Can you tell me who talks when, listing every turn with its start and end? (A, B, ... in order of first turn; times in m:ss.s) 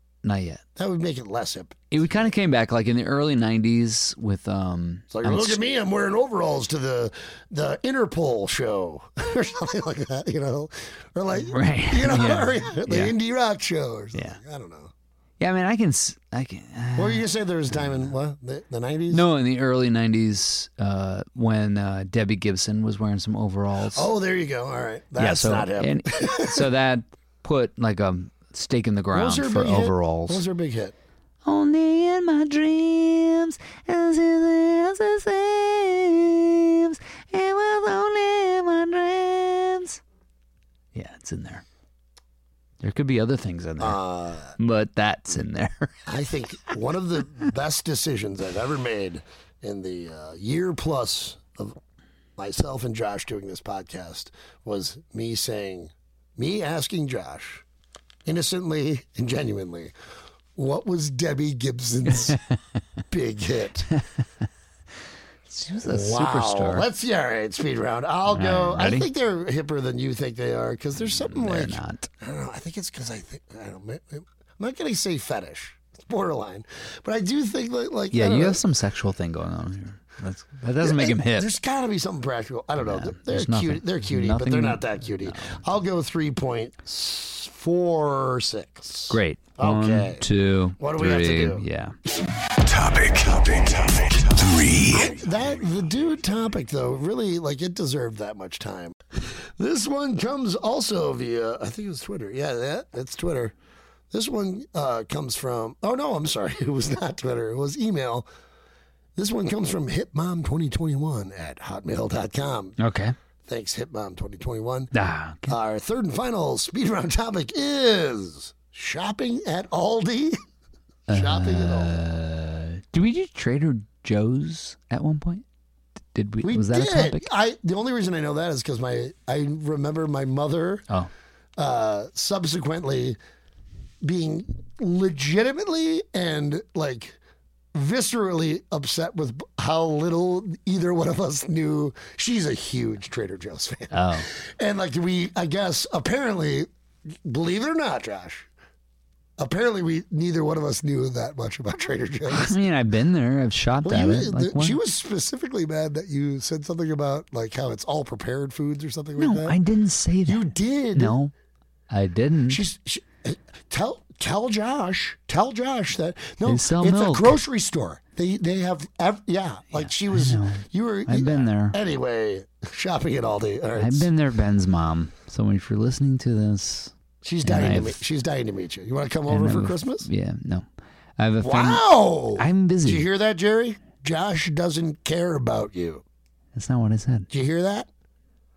0:00.2-0:00.6 A
0:00.8-0:01.9 B
0:01.9-0:05.6 A
0:05.1-0:14.9 B
0:11.4-0:13.1 A
0:15.4-0:18.1 A
0:17.0-0:19.3 B
0:19.1-0:24.1 A
0:23.9-0:26.6 B
0:25.2-0:30.4 A
0:29.1-0:31.0 B
0:31.4-0:40.0 A
0:40.9-0:41.6 A
0:42.8-0:44.0 A
0:43.8-0:44.6 B
0:44.6-0:46.0 A
0:46.1-0:51.8 B
0:52.4-0:57.6 B
0:58.2-0:59.9 B
1:00.6-1:02.4 B
1:02.3-1:02.5 A
1:03.1-1:03.9 B
1:05.5-1:06.9 A
1:05.8-1:18.6 B
1:08.3-1:09.1 A
1:11.1-1:12.1 A
1:18.1-1:21.5 A
1:20.8-1:30.3 B
1:22.8-1:25.6 A
1:29.1-1:32.0 A
1:30.8-1:31.6 B
1:32.6-1:35.1 C
1:34.8-1:43.6 B
1:44.1-1:48.3 B
1:49.2-1:52.8 B
1:52.8-1:53.1 A
1:53.4-1:54.9 B
1:54.9-1:55.6 A
1:55.4-2:00.4 B
2:01.1-2:05.4 A
2:01.1-2:02.0 B
2:06.1-2:07.3 A
2:06.4-2:10.9 B
2:11.6-2:13.2 B
2:14.0-2:17.2 B
2:17.7-2:26.7 B
2:23.9-2:24.3 A
2:27.2-2:28.5 B
2:29.4-2:32.6 B
2:32.3-2:34.8 A
2:33.8-2:39.6 B
2:39.2-2:41.3 A
2:40.3-2:41.2 B
2:41.9-2:42.6 A
2:42.5-2:54.1 B
2:46.4-2:47.4 A
2:49.7-2:51.8 A
2:53.8-2:58.0 A
2:57.2-3:00.1 B
2:59.3-3:00.7 A
3:01.2-3:03.0 A
3:01.4-3:06.0 B
3:06.6-3:07.3 A
3:07.3-3:07.9 B